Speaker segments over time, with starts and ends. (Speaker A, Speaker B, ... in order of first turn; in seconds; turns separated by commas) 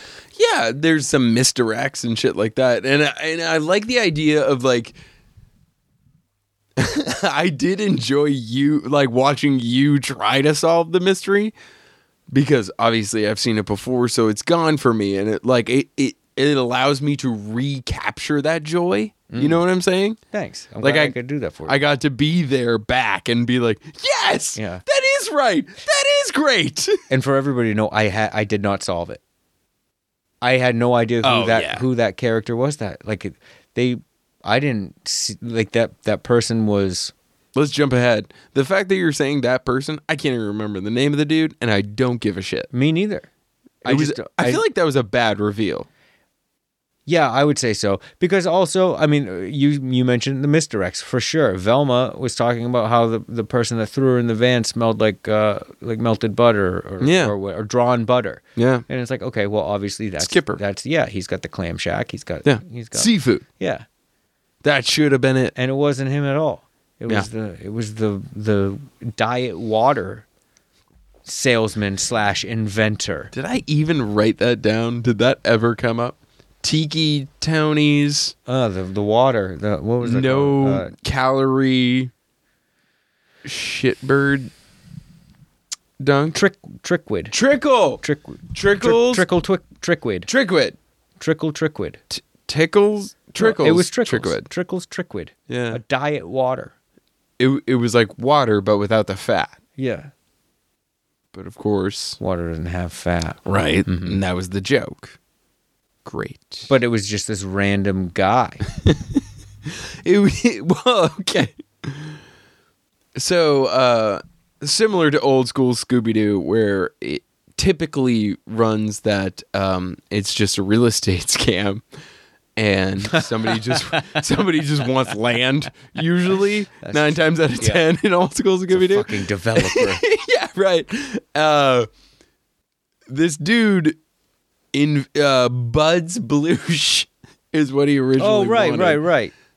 Speaker A: 0.3-5.0, Speaker A: 6.8-11.5, Speaker A: 12.3-20.2, Speaker B: 19.3-19.6, Speaker B: 20.3-21.8, Speaker A: 20.8-27.0, Speaker B: 24.6-24.8, Speaker B: 27.1-29.2, Speaker B: 30.4-37.1, Speaker A: 31.2-31.9, Speaker A: 37.5-42.7, Speaker B: 42.7-43.3, Speaker B: 43.8-44.6, Speaker A: 43.9-45.9, Speaker B: 47.1-63.9, Speaker A: 57.0-57.3, Speaker A: 58.6-58.9, Speaker A: 60.2-60.6, Speaker A: 62.4-63.4, Speaker A: 64.6-65.5, Speaker B: 65.6-70.3, Speaker B: 71.3-73.3, Speaker A: 73.3-78.3, Speaker B: 78.5-80.9, Speaker A: 80.0-82.1, Speaker A: 83.4-84.5, Speaker A: 86.0-86.4, Speaker B: 86.3-87.4, Speaker A: 87.3-89.3, Speaker B: 88.0-90.3, Speaker A: 90.3-90.8, Speaker B: 91.2-92.0, Speaker A: 92.1-94.5, Speaker B: 93.4-96.7, Speaker A: 95.5-95.8, Speaker A: 97.4-99.6, Speaker B: 99.8-100.1, Speaker A: 101.3-102.2, Speaker B: 102.2-104.2, Speaker A: 103.5-105.2, Speaker A: 106.0-106.7, Speaker B: 106.7-108.6, Speaker A: 108.8-112.2, Speaker A: 113.2-121.8, Speaker A: 122.6-131.9, Speaker B: 123.9-124.2, Speaker B: 126.8-127.8, Speaker B: 128.7-130.0, Speaker A: 133.1-134.0, Speaker A: 134.7-139.0, Speaker B: 138.2-139.3